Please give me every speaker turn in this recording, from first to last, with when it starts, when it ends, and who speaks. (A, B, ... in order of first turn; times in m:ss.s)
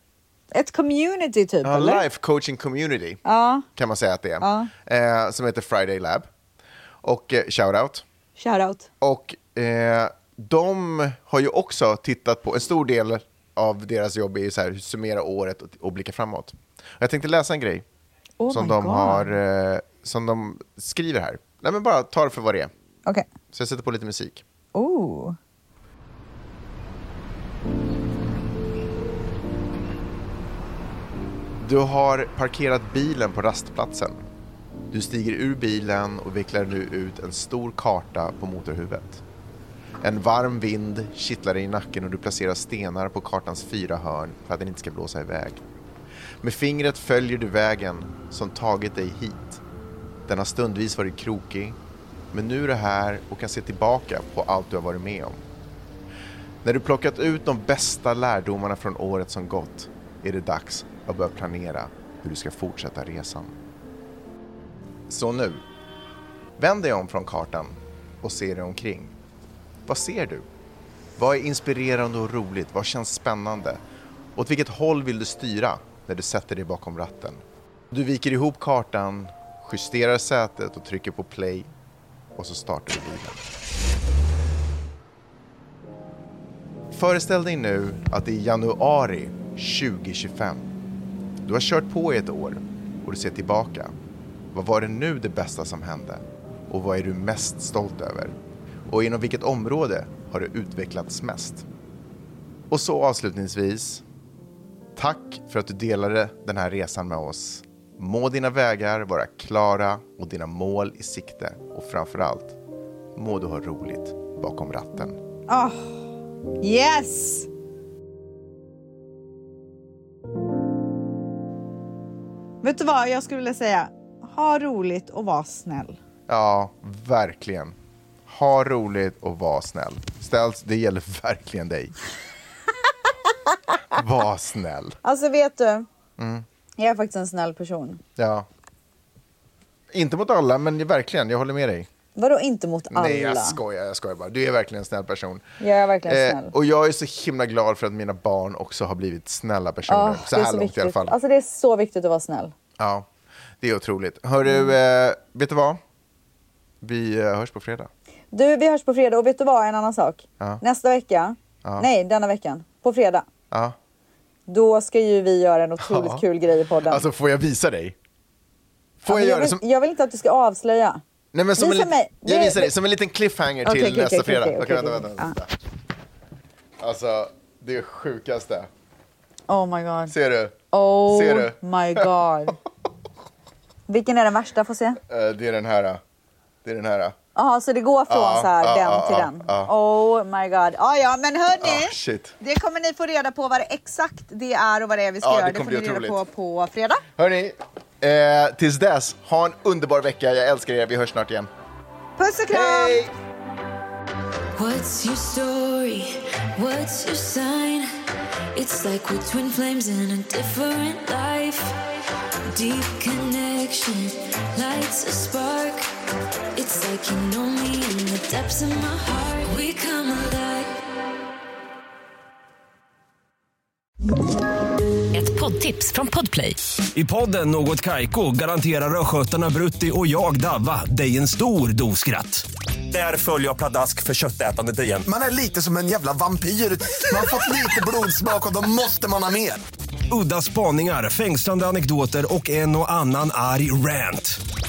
0:00.5-0:02.0 A
0:01.6-0:03.2 B
0:03.2-0:03.6 A
0:03.8-0:06.3 B
0:04.4-0:04.7 A
0:07.0-0:08.0 B
0:08.4-0:08.9 A
0:09.0-0:17.8 B
0:18.4-0:19.3 A
0:18.5-0:22.7 B
0:23.5-0:24.4 B
0:24.7-0:25.4 A
0:31.6-0:34.2 B
0:34.9-0:39.2 B
0:40.0-0:45.6 B
0:46.4-0:49.6 B
0:50.3-0:51.8 B
0:52.3-0:55.4 B
0:56.6-1:03.5 B
1:05.1-1:05.6 B
1:06.6-1:09.1 B
1:09.9-1:10.4 B
1:11.2-1:13.8 B
1:14.4-1:21.7 B
1:22.4-1:23.4 B
1:26.9-1:30.6 B
1:31.4-1:33.9 B
1:34.5-1:38.3 B
1:38.9-1:41.6 B
1:42.7-1:44.0 B
1:45.0-1:52.6 B
1:53.1-1:55.2 B
1:55.5-1:56.1 A
1:56.6-1:57.5 A
2:02.6-2:06.0 A
2:06.3-2:07.7 B
2:08.3-2:11.9 B
2:13.3-2:13.8 A
2:13.9-2:15.0 B
2:15.0-2:15.9 A
2:16.2-2:16.4 B
2:16.8-2:18.0 A
2:18.2-2:18.5 B
2:19.9-2:21.9 B
2:22.1-2:23.6 A
2:22.9-2:25.4 B
2:25.6-2:26.5 A
2:26.0-2:31.2 B
2:29.9-2:32.5 A
2:32.8-2:33.1 B
2:33.6-2:35.8 B
2:34.4-2:34.8 A
2:36.8-2:37.9 B
2:38.3-2:43.3 A
2:43.5-2:43.8 B
2:44.5-2:47.0 A
2:45.8-2:46.2 B
2:46.9-2:47.9 B
2:49.0-2:49.6 B
2:49.1-2:51.0 A
2:51.3-2:55.6 B
2:51.6-2:52.7 A
2:53.6-2:55.4 A
2:56.8-2:58.7 B
2:59.5-3:00.1 A
3:00.1-3:02.1 B
3:00.7-3:02.6 A
3:03.9-3:05.0 A
3:05.1-3:06.0 B
3:06.6-3:07.1 B
3:07.3-3:17.0 A
3:08.1-3:09.7 B
3:11.6-3:12.4 B
3:15.2-3:16.2 B
3:17.2-3:21.5 B
3:22.2-3:23.0 A
3:22.5-3:23.1 B
3:24.5-3:27.9 C
3:28.5-3:31.8 C
3:32.4-3:35.9 C
3:36.5-3:40.8 C
3:45.1-3:46.6 C
3:46.9-3:55.1 D
3:55.0-3:59.6 E
4:00.1-4:04.4 D